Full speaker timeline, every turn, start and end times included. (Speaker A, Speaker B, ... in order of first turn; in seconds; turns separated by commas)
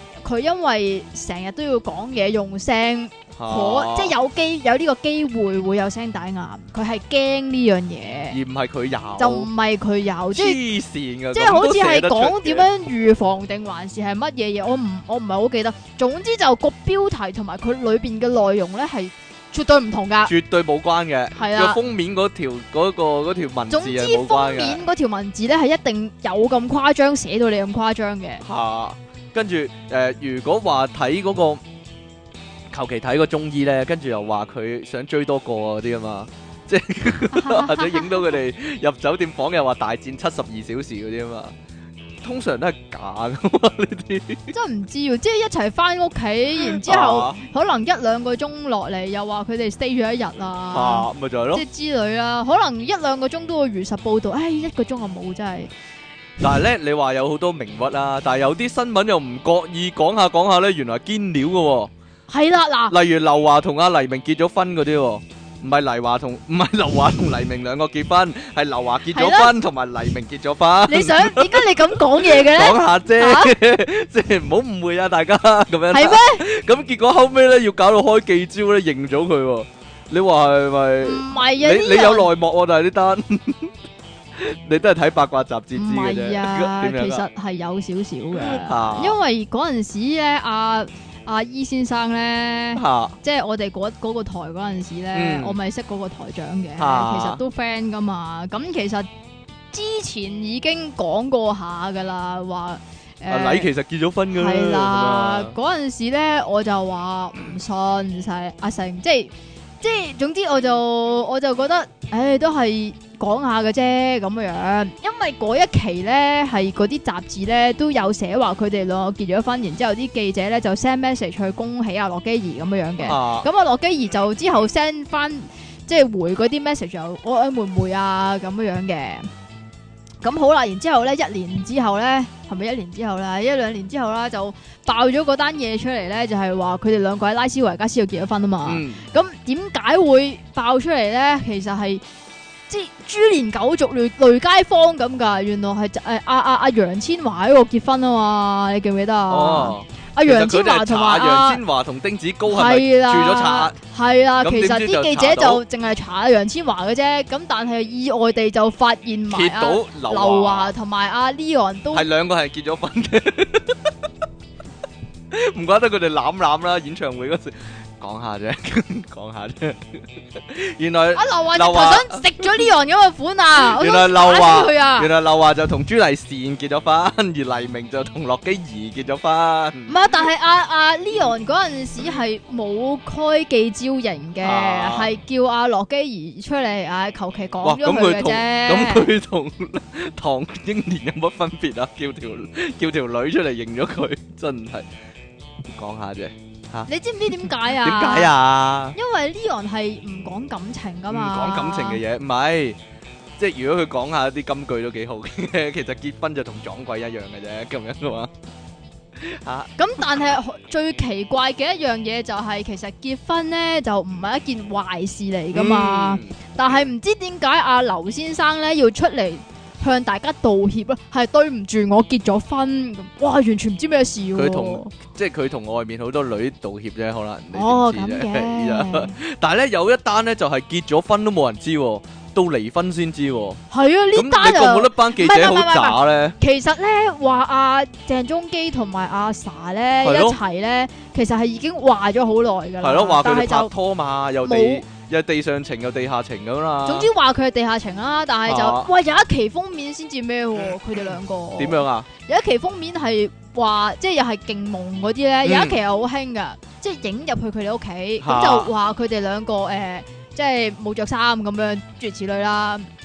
Speaker A: 0.2-8.4, Speaker B: 3.4-4.2, Speaker B: 8.3-9.5, Speaker A: 9.2-10.6, Speaker B: 10.3-12.7, Speaker A: 11.3-20.3, Speaker B: 20.3-24.8, Speaker A: 21.4-21.8, Speaker A: 23.7-28.4, Speaker B: 28.4-31.6, Speaker B: 32.7-41.5, Speaker A: 37.3-38.2, Speaker B: 42.2-44.5, Speaker A: 44.5-55.7, Speaker B: 46.6-47.4, Speaker B: 50.7-51.6, Speaker B: 56.4-61.9, Speaker A: 62.3-63.0, Speaker B: 62.9-83.7, Speaker A: 69.1-69.5, Speaker A: 70.9-73.5, Speaker A: 75.9-76.4, Speaker A: 81.0-82.3, Speaker B: 84.4-87.2, Speaker A: 85.8-99.1, Speaker B: 88.3-89.2, Speaker B: 92.8-93.2, Speaker B: 95.1-95.6, Speaker B: 96.8-97.4, Speaker A: 99.7-103.7, Speaker B: 103.3-105.5, Speaker A: 104.3-129.3, Speaker B: 123.0-123.5, Speaker A: 130.2-142.0, Speaker B: 138.7-139.1, Speaker A: 142.7-151.6, Speaker B: 149.3-153.8, Speaker A: 152.5-162.1, Speaker B: 154.4-155.6, Speaker B: 159.3-160.7, Speaker B: 161.9-163.9, Speaker B: 165.3-172.7, Speaker A: 171.2-175.1, Speaker B: 173.6-179.9, Speaker A: 179.9-189.1, Speaker B: 184.4-185.1, Speaker B: 187.6-194.9, Speaker B: 195.8-196.9, Speaker A: 196.9-198.3, Speaker B: 197.4-199.0, Speaker A: 198.9-202.0, Speaker B: 201.1-202.8, Speaker B: 203.4-208.3, Speaker B: 209.2-209.7, Speaker A: 209.8-224.9, Speaker B: 215.5-216.4, Speaker B: 224.4-233.6, Speaker A: 227.5-229.2, Speaker A: 233.7-243.7, Speaker B: 234.2-236.4, Speaker B: 240.0-240.4, Speaker B: 242.8-247.1, Speaker A: 244.4-244.8, Speaker A: 246.8-262.9, Speaker B: 248.5-248.9, Speaker B: 251.6-252.1, Speaker B: 255.4-255.8, Speaker B: 258.2-258.7